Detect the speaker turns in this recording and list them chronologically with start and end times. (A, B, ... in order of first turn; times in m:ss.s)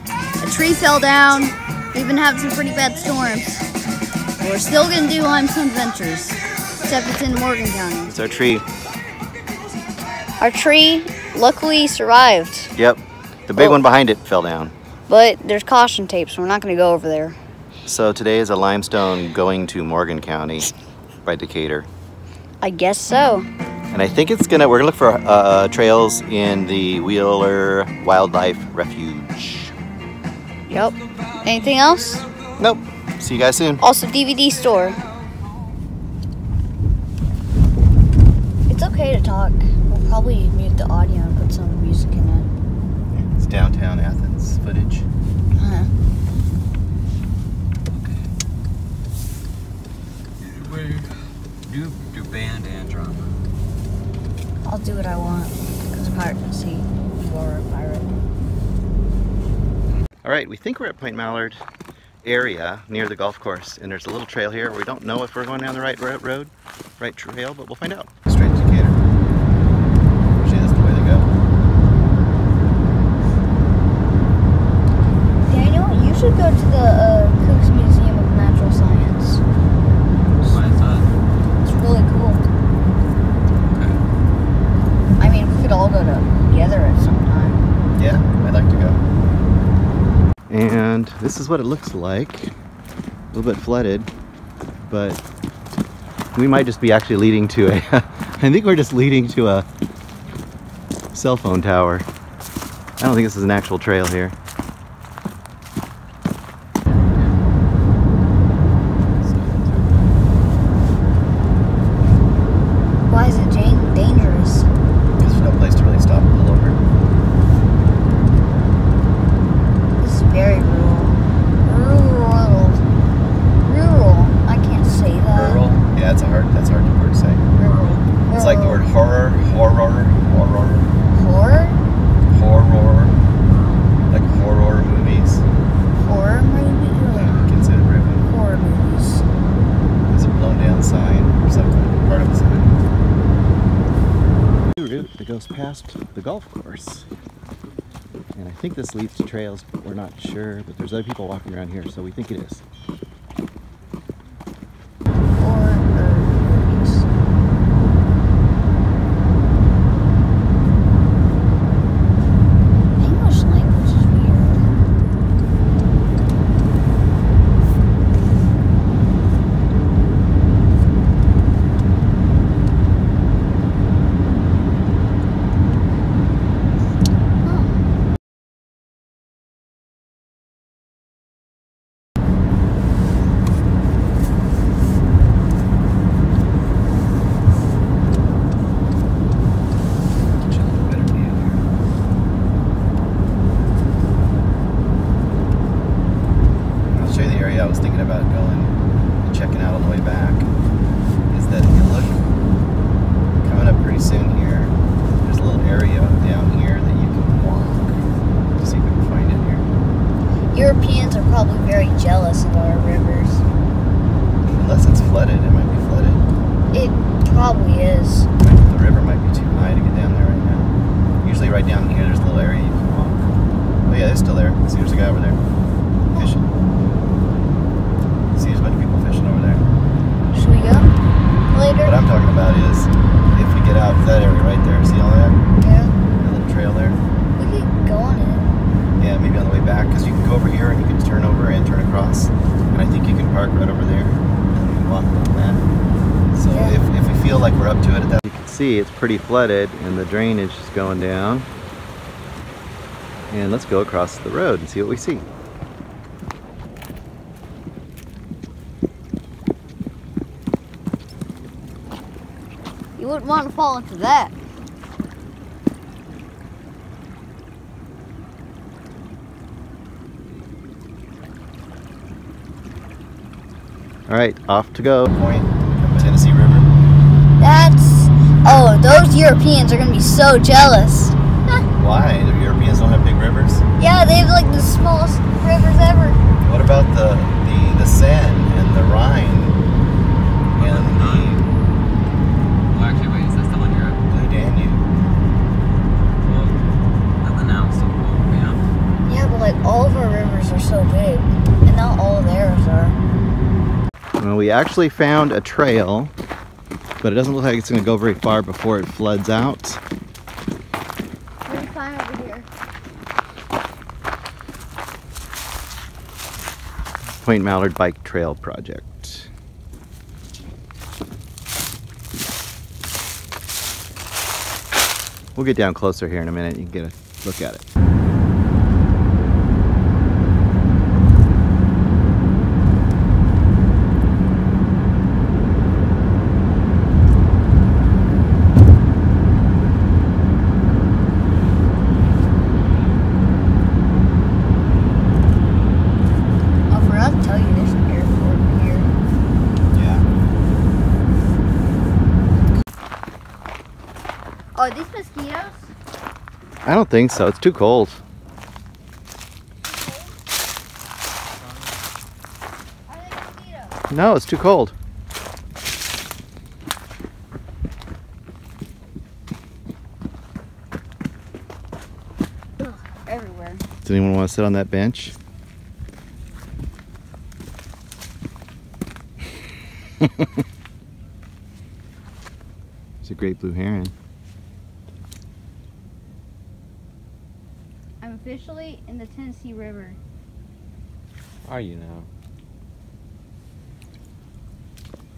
0:00.4-0:03.7 A
0:04.4-0:08.1 A
0:08.1-0:08.6 B
0:10.4-0:12.7 A
0:12.8-0:14.7 B
0:13.6-0:13.8 A
0:15.1-0:17.4 A
0:17.9-0:20.7 B
0:21.2-0:21.9 B
0:22.6-0:23.5 A
0:23.9-0:29.7 B
0:30.7-0:32.3 A
0:32.6-0:33.8 B
0:33.8-0:35.0 A
0:38.7-0:42.5 A
0:43.1-0:45.1 B
0:45.6-0:45.9 A
0:47.9-0:48.3 C
0:50.4-0:51.1 C
0:51.7-0:53.3 C
0:54.6-0:58.2 A
1:00.2-1:01.6 B
1:02.2-1:09.0 B
1:10.4-1:11.3 B
1:15.4-1:19.4 A
1:20.4-1:21.1 C
1:21.6-1:22.4 A
1:23.7-1:24.0 C
1:25.2-1:27.6 A
1:28.0-1:29.0 B
1:30.5-1:32.5 B
1:33.3-1:34.1 B
1:34.9-1:35.2 B
1:36.4-1:39.7 B
1:41.1-1:42.1 B
1:43.0-1:44.4 B
1:49.2-1:49.9 C
1:53.1-1:54.7 A
1:55.2-1:56.8 B
2:00.0-2:02.8 A
2:03.6-2:05.6 A
2:05.3-2:07.4 B
2:07.5-2:08.9 A
2:08.4-2:10.9 B
2:11.1-2:11.8 A
2:12.3-2:13.2 B
2:14.1-2:15.4 B
2:16.0-2:17.5 A
2:17.1-2:18.3 B
2:18.2-2:19.3 A
2:20.1-2:22.8 B
2:24.8-2:27.1 B
2:28.4-2:32.6 B
2:35.4-2:37.1 A
2:42.9-2:44.7 A
2:57.4-2:57.9 A
3:10.4-3:11.6 B
3:16.9-3:20.5 B
3:21.3-3:22.2 B
3:23.4-3:28.0 B
3:28.6-3:29.7 B
3:30.5-3:33.4 A
3:34.5-3:36.2 B
3:36.7-3:38.3 A
3:38.4-3:40.7 B
3:41.2-3:43.2 B
3:43.9-3:45.4 B
3:46.1-3:46.4 B
3:48.4-3:49.7 B
3:50.3-3:50.9 A
3:51.5-3:52.0 A
3:51.8-3:55.4 B
3:55.6-3:55.9 A
3:56.2-3:57.0 B
3:57.4-3:58.6 A
3:59.0-4:05.7 B
4:06.3-4:11.5 B
4:06.5-4:06.8 A
4:13.3-4:15.2 B
4:23.0-4:24.4 A
4:34.1-4:36.7 B
4:37.4-4:41.6 A
4:41.8-4:43.6 B
4:43.8-4:46.2 A
4:46.4-4:49.6 B
4:50.6-4:51.4 B
4:50.6-4:51.5 C
4:52.7-4:54.0 C
4:54.1-4:54.8 B
4:56.2-4:56.6 C
4:57.2-4:58.6 C
4:59.0-5:03.0 A
5:04.2-5:06.1 B
5:07.0-5:09.8 B
5:11.4-5:12.5 A
5:17.2-5:19.3 B
5:25.4-5:27.7 B
5:46.7-5:48.9 A
5:49.7-5:50.1 B
5:54.6-5:55.7 A
5:56.6-5:58.0 B
5:59.7-6:00.2 A
6:02.9-6:03.8 A
6:03.9-6:04.7 B
6:12.6-6:13.6 A
6:13.8-6:15.2 B
6:23.0-6:23.9 B
6:28.0-6:30.0 A
6:31.4-6:32.1 C